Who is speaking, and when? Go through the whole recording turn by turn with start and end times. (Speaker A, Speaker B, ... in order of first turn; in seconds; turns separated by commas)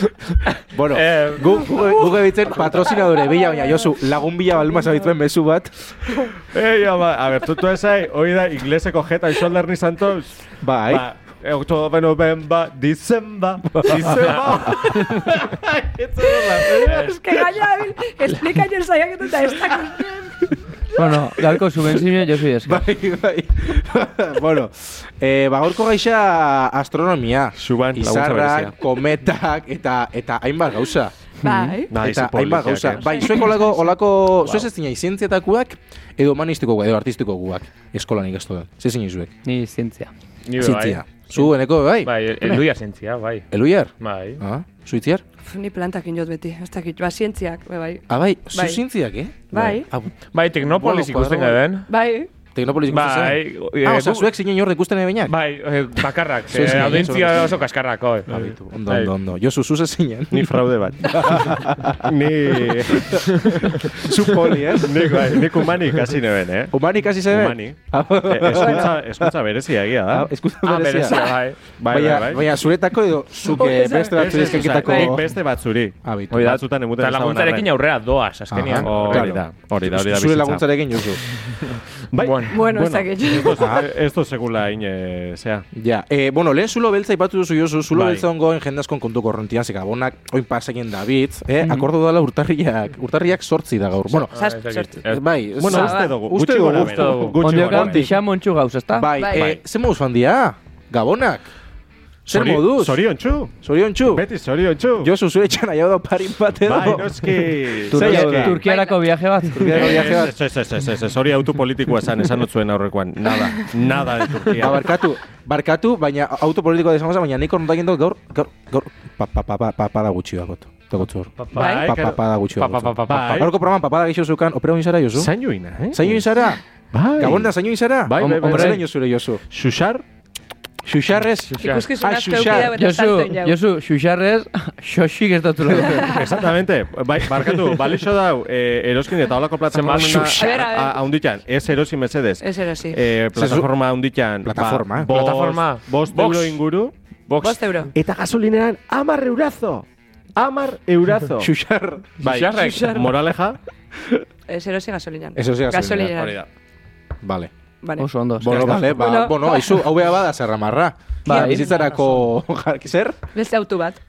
Speaker A: 0.7-5.9, Speaker B: 0.9-2.0, Speaker C: 3.2-3.6, Speaker D: 6.5-10.4, Speaker A: 10.6-11.1, Speaker D: 10.9-17.2, Speaker C: 16.7-20.1, Speaker E: 21.0-22.8, Speaker A: 22.6-31.1, Speaker D: 27.6-28.8, Speaker E: 31.4-31.8, Speaker C: 31.4-31.9, Speaker D: 31.9-33.4, Speaker A: 31.9-39.3, Speaker C: 33.0-33.7, Speaker E: 39.4-40.1, Speaker B: 40.5-41.5, Speaker A: 40.6-42.6, Speaker B: 42.0-43.5, Speaker A: 43.5-45.2, Speaker B: 44.0-44.4, Speaker C: 45.5-48.8, Speaker A: 48.1-51.6, Speaker C: 49.5-49.9, Speaker B: 50.3-51.9, Speaker C: 51.9-52.3, Speaker A: 52.5-55.3, Speaker B: 52.9-54.3, Speaker B: 55.3-59.1, Speaker A: 56.5-57.6, Speaker A: 58.3-63.2, Speaker D: 60.3-63.5, Speaker A: 63.8-65.6, Speaker D: 64.8-70.3, Speaker A: 66.7-69.3, Speaker C: 68.6-68.8, Speaker A: 70.1-71.3, Speaker B: 70.6-71.6, Speaker D: 71.8-72.4, Speaker A: 71.9-75.3, Speaker C: 73.5-75.2, Speaker D: 74.2-77.7, Speaker A: 76.0-76.5, Speaker B: 76.3-79.3, Speaker A: 78.5-81.2, Speaker D: 78.8-80.7, Speaker D: 82.1-85.7, Speaker B: 82.2-82.6, Speaker C: 82.5-83.8, Speaker A: 83.6-83.9, Speaker A: 85.7-94.3, Speaker B: 94.3-95.2, Speaker C: 94.3-95.0, Speaker A: 95.0-98.2, Speaker D: 95.5-98.1, Speaker C: 95.7-96.2, Speaker E: 96.8-99.2, Speaker A: 98.9-101.5, Speaker C: 99.2-99.6, Speaker A: 102.2-103.0, Speaker D: 102.3-103.5, Speaker A: 103.6-104.2, Speaker D: 104.1-105.1, Speaker A: 105.0-108.6, Speaker D: 106.6-108.6, Speaker E: 107.9-110.2, Speaker C: 108.6-109.2, Speaker A: 109.5-110.3, Speaker D: 109.5-115.0, Speaker A: 114.5-125.3, Speaker D: 121.4-122.2, Speaker C: 121.5-121.9, Speaker B: 122.6-123.5, Speaker D: 123.1-123.5, Speaker D: 125.2-126.2, Speaker A: 125.9-126.6, Speaker D: 126.9-127.5, Speaker A: 127.2-129.4, Speaker D: 128.1-128.9, Speaker E: 128.2-128.8, Speaker D: 129.5-130.1, Speaker A: 130.8-132.8, Speaker B: 131.5-131.9, Speaker C: 131.6-133.6, Speaker E: 132.7-136.2, Speaker C: 135.9-136.2, Speaker D: 136.1-149.8, Speaker B: 139.7-140.5, Speaker C: 140.4-141.1, Speaker C: 142.4-143.0, Speaker A: 143.3-143.7, Speaker A: 144.4-145.1, Speaker B: 145.1-146.6, Speaker C: 147.4-147.9, Speaker D: 150.4-151.5, Speaker A: 151.4-152.2, Speaker D: 152.2-153.6, Speaker B: 152.2-153.0, Speaker C: 152.5-153.2, Speaker C: 154.5-156.4, Speaker A: 155.4-156.3, Speaker A: 157.2-157.5, Speaker C: 157.8-159.9, Speaker E: 158.0-158.9, Speaker A: 158.4-163.2, Speaker D: 158.5-158.8, Speaker E: 161.2-161.8, Speaker C: 161.3-161.7, Speaker C: 163.3-164.0